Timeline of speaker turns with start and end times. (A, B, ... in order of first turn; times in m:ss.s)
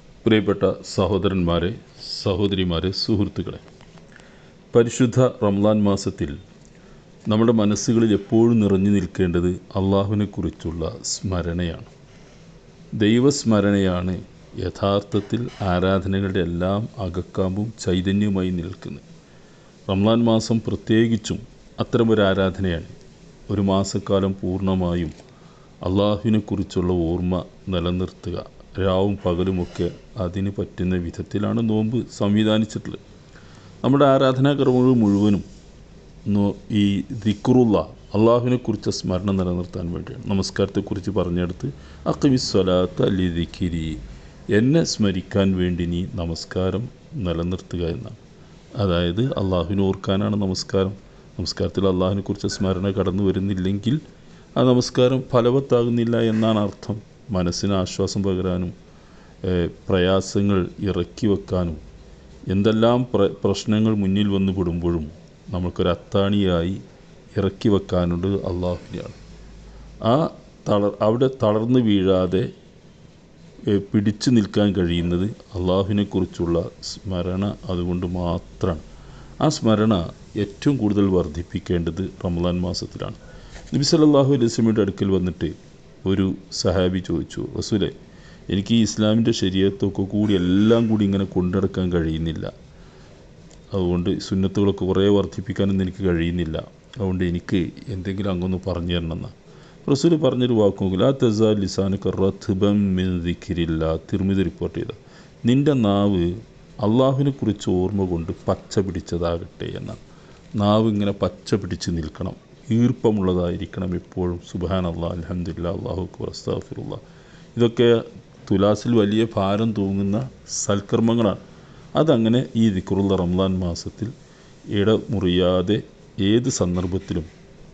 0:00.2-0:03.6 A
0:04.7-0:06.3 A
0:07.3-0:11.9 A
0:13.0-0:19.0 A
0:19.9-0:22.9 A
0:23.5-0:25.1 A
0:25.8-0:33.0 A
0:33.8-0:35.4 A
0:36.2-0:44.0 A
0:44.5-0:48.2 A
0:48.8-0:54.0 A
0:54.6-0:58.7 A
0:59.4-1:01.8 A
1:02.5-1:06.8 A
1:07.3-1:09.2 A
1:10.0-1:12.5 A
1:13.7-1:18.8 A
1:19.4-1:23.2 A
1:23.7-1:27.9 A
1:28.5-1:32.5 A
1:33.7-1:39.3 A
1:39.8-1:46.3 A
1:46.8-1:50.0 A
1:50.6-1:57.0 A
1:57.5-2:01.4 A
2:02.0-2:04.1 A
2:04.7-2:07.3 A